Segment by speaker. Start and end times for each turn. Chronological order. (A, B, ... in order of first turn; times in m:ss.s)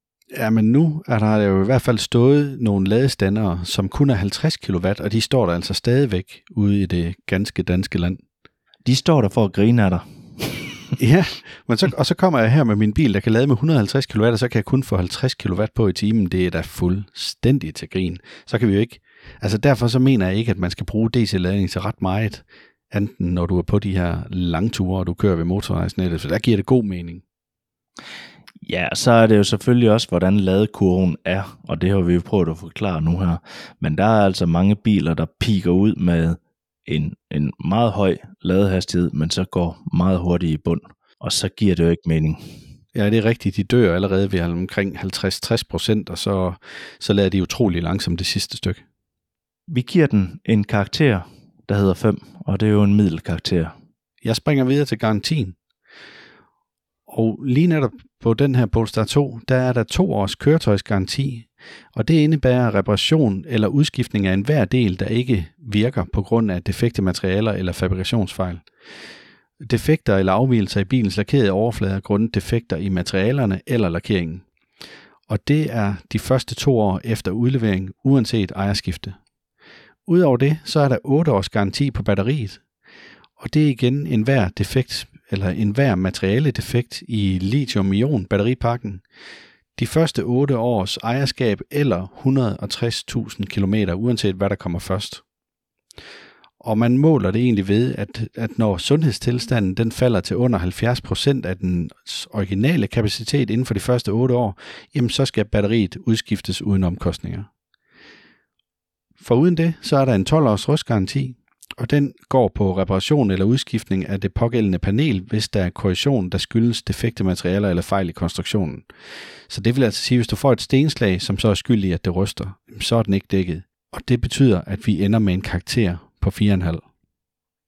0:00.3-0:08.2 A
0:08.8-0:10.9 B
0:11.0-0:27.2 A
0:28.6-0:42.4 B
0:42.9-0:48.8 A
0:49.7-0:53.7 B
0:54.2-0:55.6 A
0:57.1-1:08.7 A
1:09.6-1:14.4 A
1:15.3-1:19.2 A
1:20.1-1:22.6 A
1:23.4-1:29.0 A
1:29.8-1:35.2 A
1:36.6-1:47.5 A
1:49.2-1:58.9 A
1:59.5-2:06.8 A